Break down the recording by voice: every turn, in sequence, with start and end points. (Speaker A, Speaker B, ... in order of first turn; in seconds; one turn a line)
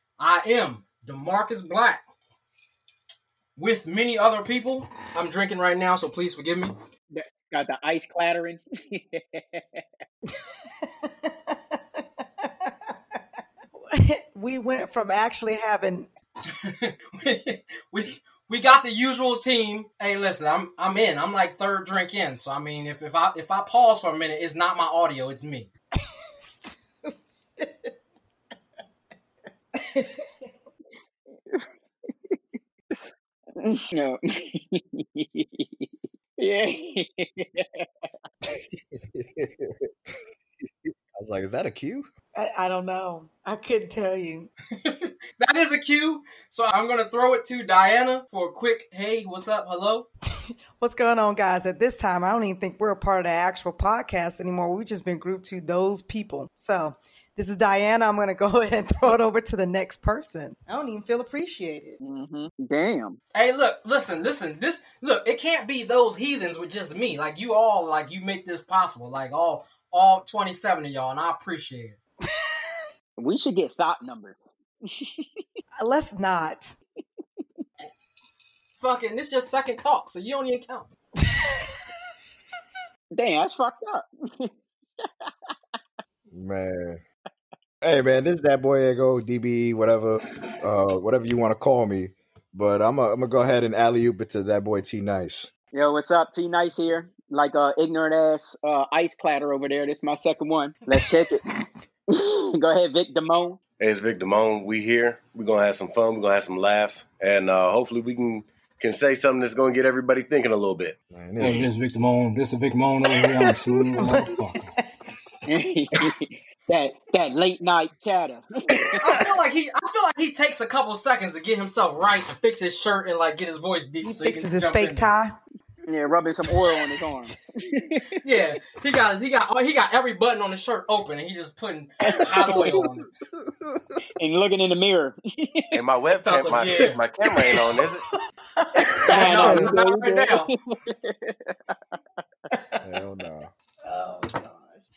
Speaker A: 0.2-2.0
Speaker A: 3.5-6.8
Speaker B: 7.1-9.8
Speaker C: 10.3-12.9
Speaker C: 13.8-16.1
Speaker A: 16.6-25.7
Speaker C: 26.0-27.9
Speaker C: 29.7-30.5
Speaker B: 33.6-37.9
Speaker D: 38.5-39.9
Speaker D: 40.8-42.1
Speaker C: 42.3-44.5
Speaker A: 44.8-50.1
Speaker C: 50.8-62.0
Speaker B: 62.0-63.2
Speaker A: 63.3-72.0
Speaker C: 72.3-72.8
Speaker B: 73.2-75.2
Speaker C: 75.8-76.8
Speaker A: 78.8-80.9
Speaker C: 81.2-81.8
Speaker B: 83.1-85.5
Speaker D: 86.3-87.0
Speaker D: 87.8-95.5
Speaker B: 95.7-101.4
Speaker B: 102.1-103.6
Speaker E: 103.8-111.0
Speaker D: 111.1-111.7
Speaker A: 111.4-114.6
Speaker C: 114.0-115.0
Speaker B: 115.5-119.0
Speaker A: 119.0-125.1
Speaker C: 124.0-125.4
Speaker B: 125.9-128.2
Speaker A: 128.2-133.1
Speaker D: 132.1-134.0
Speaker B: 134.2-135.8
Speaker E: 135.7-138.0
Speaker A: 136.2-137.0
Speaker C: 137.4-139.6
Speaker B: 138.9-142.0
Speaker A: 139.1-140.5
Speaker D: 139.4-139.7
Speaker C: 142.5-142.8
Speaker D: 142.8-143.5
Speaker C: 143.8-144.8